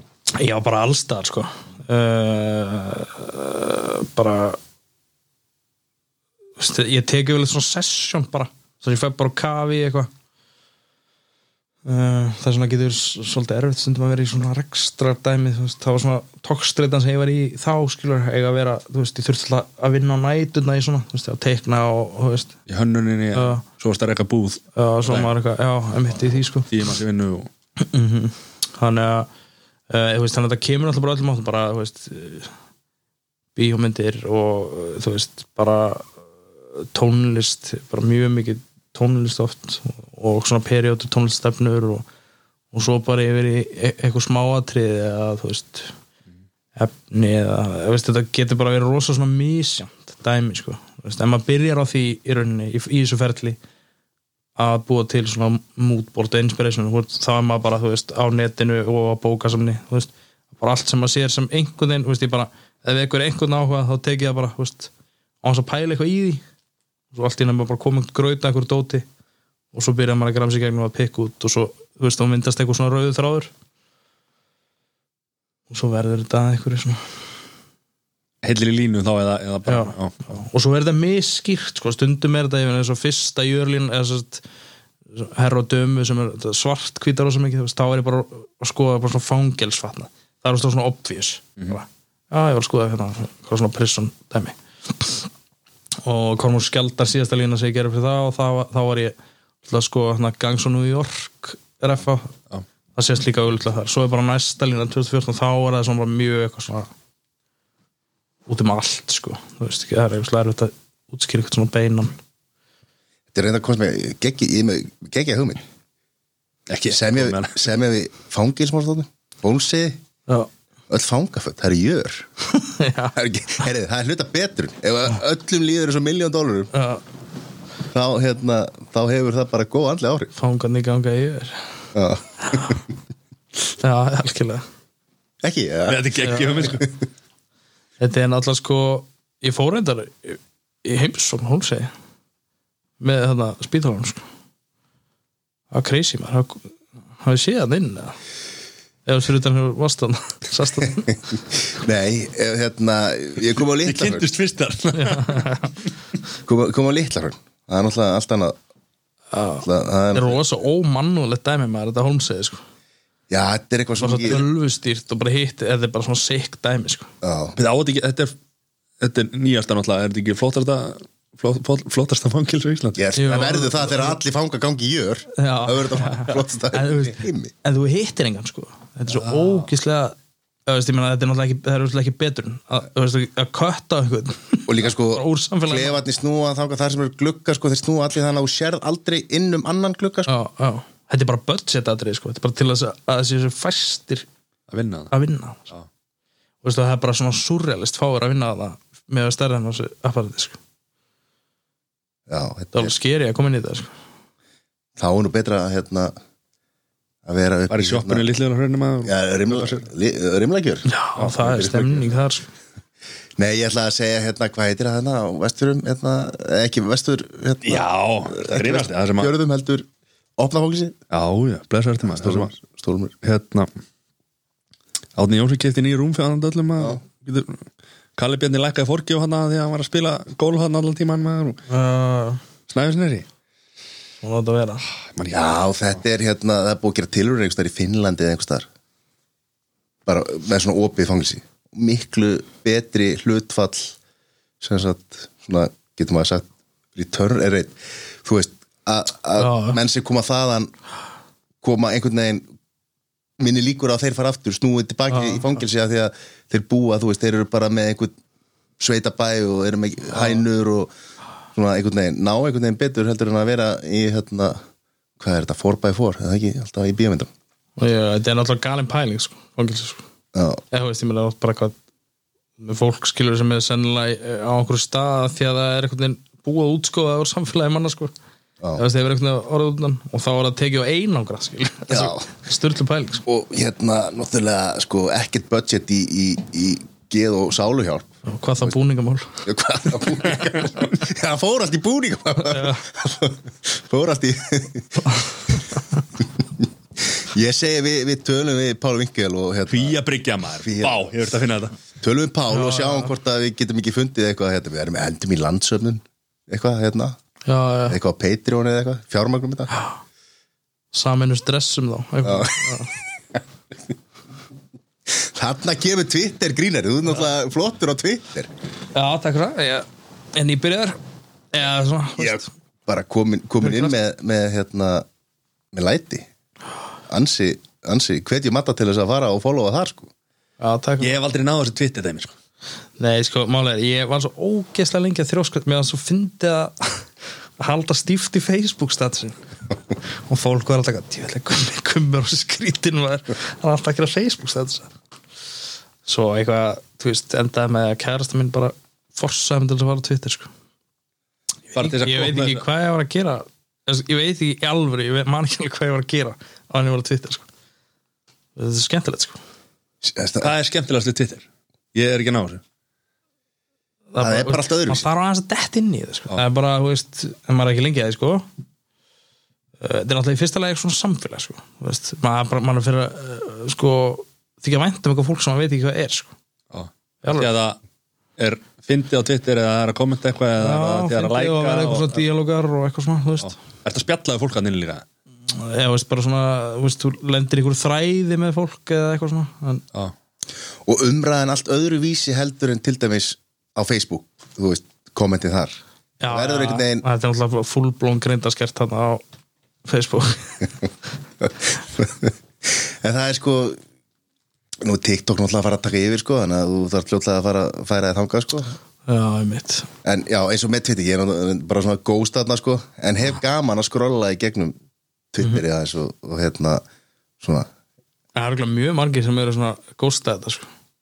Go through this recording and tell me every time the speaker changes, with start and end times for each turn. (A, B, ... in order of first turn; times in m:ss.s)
0:00.4-0:04.6 A
0:06.6-0:10.1 A
0:11.8-0:22.5 A
0:22.7-0:25.3 B
0:23.3-0:23.6 A
0:24.8-0:26.7 A
0:26.6-0:27.5 B
0:27.8-0:29.3 A
0:29.9-0:32.5 A
0:33.5-0:36.1 A
0:36.7-0:42.0 A
0:42.7-0:45.9 A
0:46.8-0:53.6 A
0:54.6-1:04.9 A
1:05.4-1:06.4 A
1:07.1-1:09.0 A
1:09.7-1:13.5 A
1:15.7-1:17.0 A
1:18.4-1:20.4 B
1:19.6-1:24.4 A
1:25.1-1:35.3 A
1:36.0-1:39.1 A
1:39.7-1:42.3 A
1:42.9-1:46.9 A
1:48.5-1:52.1 A
1:53.3-1:55.6 C
1:56.7-1:57.6 B
1:56.9-2:00.0 C
2:00.9-2:02.3 C
2:02.5-2:03.1 A
2:03.1-2:06.7 C
2:06.7-2:07.0 A
2:07.9-2:10.3 C
2:10.3-2:11.8 A
2:11.9-2:12.8 C
2:12.4-2:12.8 A
2:13.8-2:14.6 A
2:15.4-2:16.9 C
2:15.9-2:16.9 B
2:16.2-2:16.6 A
2:18.0-2:21.9 A
2:23.0-2:24.2 A
2:25.7-2:28.2 A
2:29.0-2:31.2 A
2:31.7-2:34.3 C
2:33.8-2:35.5 B
2:34.9-2:35.7 A
2:36.4-2:38.6 C
2:39.3-2:42.6 A
2:39.6-2:40.4 C
2:43.3-2:44.4 C
2:44.0-2:47.1 A
2:47.2-2:47.6 C
2:47.6-2:48.3 B
2:49.0-2:53.0 B
2:53.0-2:57.5 C
2:53.2-2:54.2 A
2:55.3-3:06.0 A
2:59.2-2:59.6 B
3:04.7-3:10.3 C
3:10.3-3:14.3 A
3:14.7-3:15.1 B
3:15.1-3:15.7 A
3:16.6-3:20.6 A
3:22.3-3:22.9 C
3:22.7-3:23.9 A
3:25.0-3:26.1 C
3:27.2-3:28.2 C
3:27.7-3:29.8 B
3:29.0-3:30.8 C
3:30.8-3:32.5 A
3:31.2-3:32.0 B
3:33.4-3:41.0 C
3:37.6-3:39.3 B
3:41.1-3:42.5 B
3:42.0-3:43.1 C
3:43.2-3:43.7 B
3:45.2-3:47.6 B
3:48.2-3:51.6 B
3:51.7-3:52.4 A
3:52.7-3:53.2 B
3:54.2-3:54.8 A
3:55.1-3:55.6 B
3:55.3-3:58.6 C
4:00.0-4:04.0 C
4:04.6-4:10.7 C
4:09.4-4:09.8 A
4:11.6-4:12.4 C
4:13.4-4:18.1 C
4:15.1-4:15.5 A
4:18.8-4:20.9 C
4:20.1-4:20.4 A
4:21.5-4:24.6 C
4:25.2-4:27.3 C
4:27.8-4:30.0 A
4:30.3-4:30.6 C
4:30.7-4:31.8 A
4:32.6-4:38.1 A
4:38.8-4:43.2 A
4:41.9-4:42.2 C
4:43.2-4:48.1 C
4:48.2-4:49.4 A
4:49.4-4:55.0 C
4:52.4-4:52.8 A
4:55.0-4:56.0 A
4:56.6-5:00.0 C
4:59.7-5:01.7 B
5:00.6-5:01.1 C
5:02.0-5:07.2 C
5:02.5-5:03.1 A
5:07.4-5:08.0 A
5:07.9-5:09.7 C
5:10.9-5:12.9 A
5:12.2-5:12.9 C
5:15.1-5:18.5 C
5:18.9-5:21.0 A
5:21.5-5:22.5 A
5:22.2-5:25.0 C
5:23.6-5:23.9 A
5:25.7-5:26.3 C
5:27.1-5:30.1 C
5:30.6-5:31.1 A
5:31.0-5:32.3 B
5:33.0-5:39.4 A
5:40.3-5:44.9 A
5:46.0-5:50.5 A
5:51.7-5:52.6 B
5:51.7-5:57.5 A
5:58.6-5:59.4 A
6:00.0-6:00.5 C
6:00.4-6:02.6 B
6:04.1-6:08.4 A
6:04.2-6:05.0 C
6:09.8-6:16.3 A
6:16.7-6:17.8 B
6:17.2-6:17.5 A
6:18.4-6:22.2 B
6:20.6-6:23.5 A
6:23.4-6:25.0 B
6:25.5-6:29.8 A
6:30.8-6:37.0 C
6:36.2-6:39.2 A
6:39.8-6:40.7 A
6:41.4-6:43.8 C
6:44.8-6:48.7 C
6:49.1-6:49.9 A
6:50.0-6:54.7 C
6:55.3-6:56.8 C
6:57.4-6:57.7 C
6:58.3-7:00.7 A